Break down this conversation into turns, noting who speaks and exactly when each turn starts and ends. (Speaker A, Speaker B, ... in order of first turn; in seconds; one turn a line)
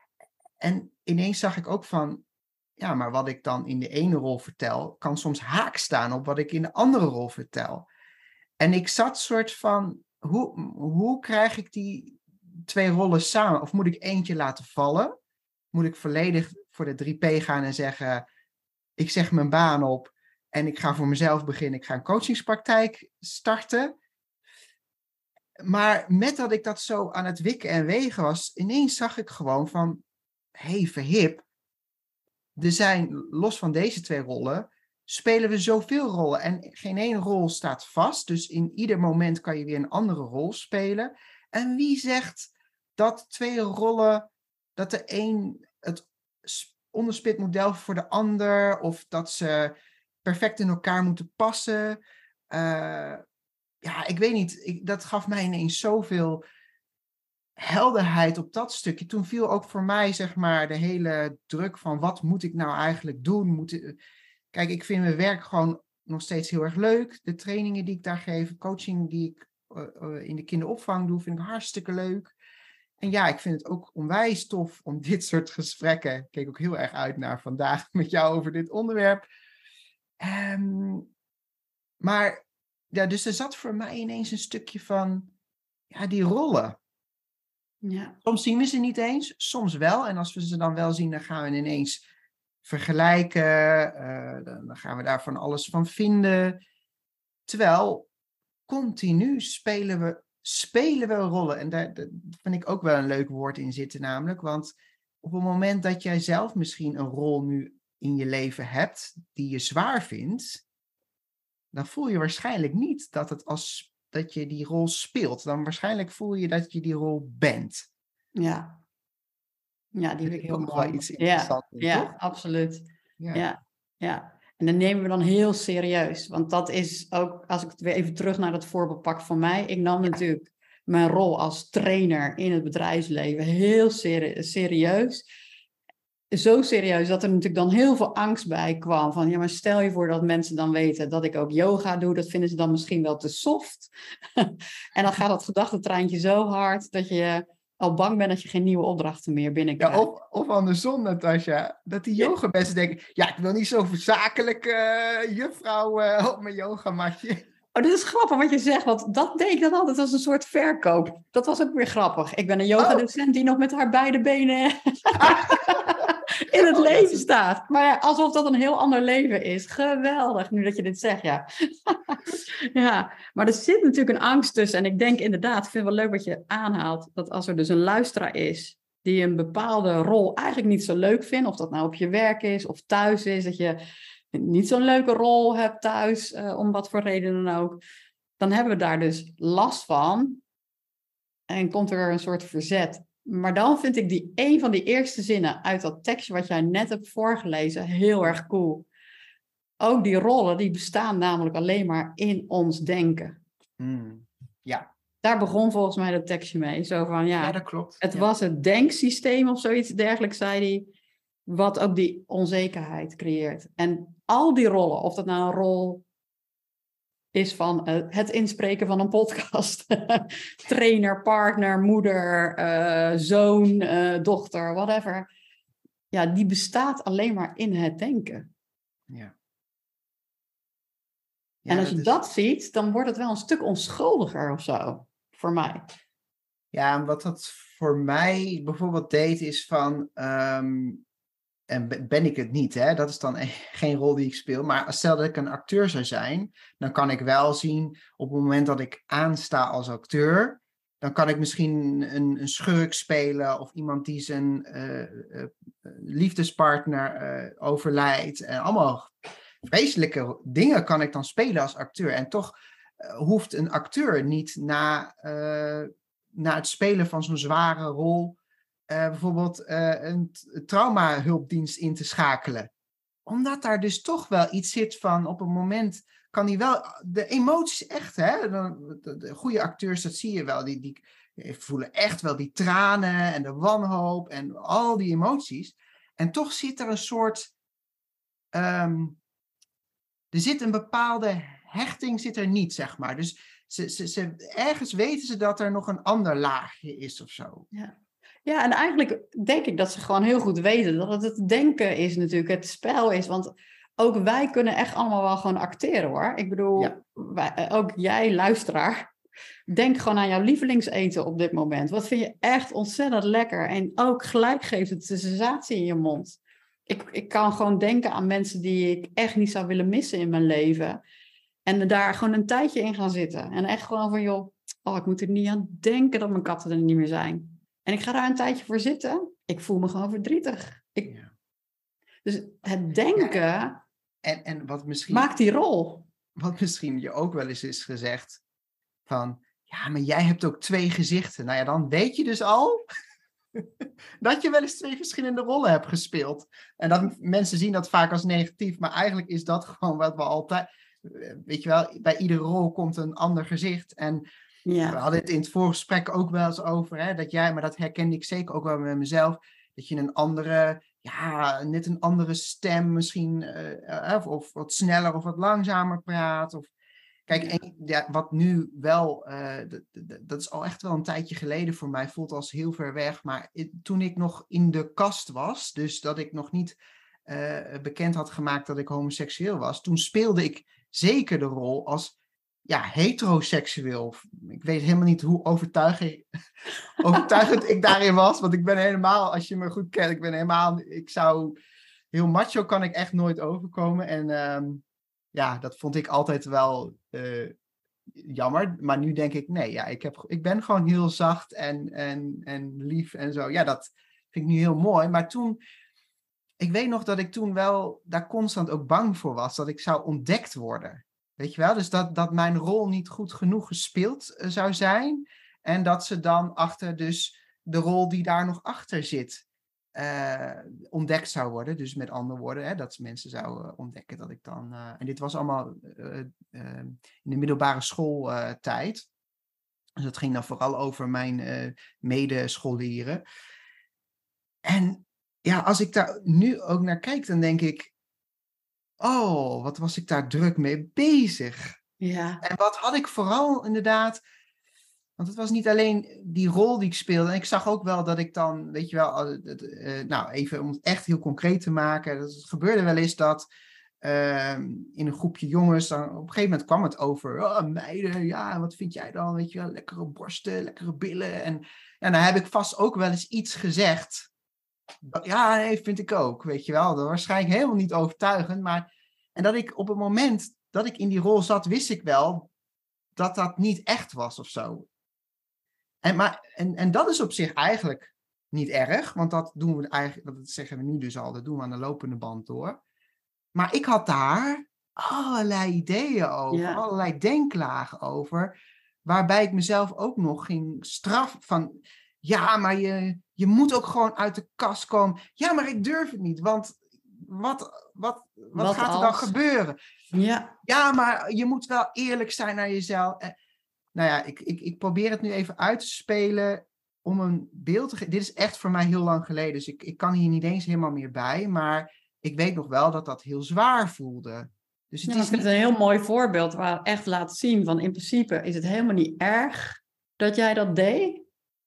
Speaker A: 0.6-2.2
Speaker A: 2.8-7.9
Speaker A: 8.6-15.1
Speaker A: 15.7-18.2
Speaker A: 19.0-23.9
Speaker A: 25.6-30.0
Speaker A: 30.6-31.4
Speaker A: 32.6-52.0
Speaker A: 52.5-53.2
Speaker A: 53.8-56.4
Speaker A: 57.6-64.0
Speaker A: 64.5-72.3
Speaker A: 73.0-79.2
Speaker A: 80.2-81.1
Speaker A: 82.0-85.3
Speaker A: 85.9-86.8
Speaker B: 87.8-88.2
Speaker A: 88.2-92.0
Speaker A: 92.6-96.6
Speaker A: 97.5-98.1
Speaker A: 98.7-110.6
Speaker A: 111.7-117.9
Speaker B: 118.3-118.8
Speaker B: 119.9-135.2
Speaker A: 120.2-122.1
Speaker B: 136.3-150.1
Speaker A: 149.8-157.4
Speaker B: 157.7-183.8
Speaker A: 162.8-163.1
Speaker A: 165.2-167.2
Speaker B: 184.3-187.8
Speaker B: 188.4-190.4
Speaker B: 191.5-198.9
Speaker B: 199.8-203.4
Speaker A: 203.8-204.9
Speaker B: 205.2-210.9
Speaker A: 207.4-208.2
Speaker B: 211.4-216.0
Speaker B: 217.3-225.3
Speaker B: 226.1-228.5
Speaker A: 231.7-232.1
Speaker B: 231.7-235.9
Speaker A: 236.7-241.0
Speaker A: 241.7-259.1
Speaker A: 259.6-268.4
Speaker A: 268.9-272.7
Speaker A: 273.2-287.5
Speaker A: 288.5-289.2
Speaker A: 290.3-297.7
Speaker B: 297.7-309.1
Speaker B: 309.7-321.0
Speaker B: 321.7-331.2
Speaker B: 332.2-333.8
Speaker A: 334.2-335.3
Speaker B: 335.1-336.1
Speaker A: 336.4-338.4
Speaker A: 339.1-342.8
Speaker A: 343.6-354.2
Speaker B: 354.7-355.0
Speaker A: 354.9-366.7
Speaker A: 367.3-382.1
Speaker B: 367.3-367.6
Speaker A: 382.7-386.2
Speaker A: 387.0-391.6
Speaker A: 392.1-397.6
Speaker A: 398.1-405.6
Speaker A: 406.6-429.1
Speaker A: 430.0-433.2
Speaker A: 434.7-437.9
Speaker A: 439.0-441.8
Speaker B: 442.0-442.4
Speaker A: 442.4-444.2
Speaker A: 445.2-453.5
Speaker A: 454.0-464.3
Speaker A: 465.0-472.5
Speaker A: 473.2-474.9
Speaker A: 476.0-482.8
Speaker A: 483.6-488.6
Speaker B: 486.5-486.8
Speaker A: 489.1-491.7
Speaker A: 492.2-499.8
Speaker B: 498.6-499.3
Speaker B: 500.1-500.6
Speaker A: 500.6-503.3
Speaker A: 503.9-515.5
Speaker B: 515.1-521.2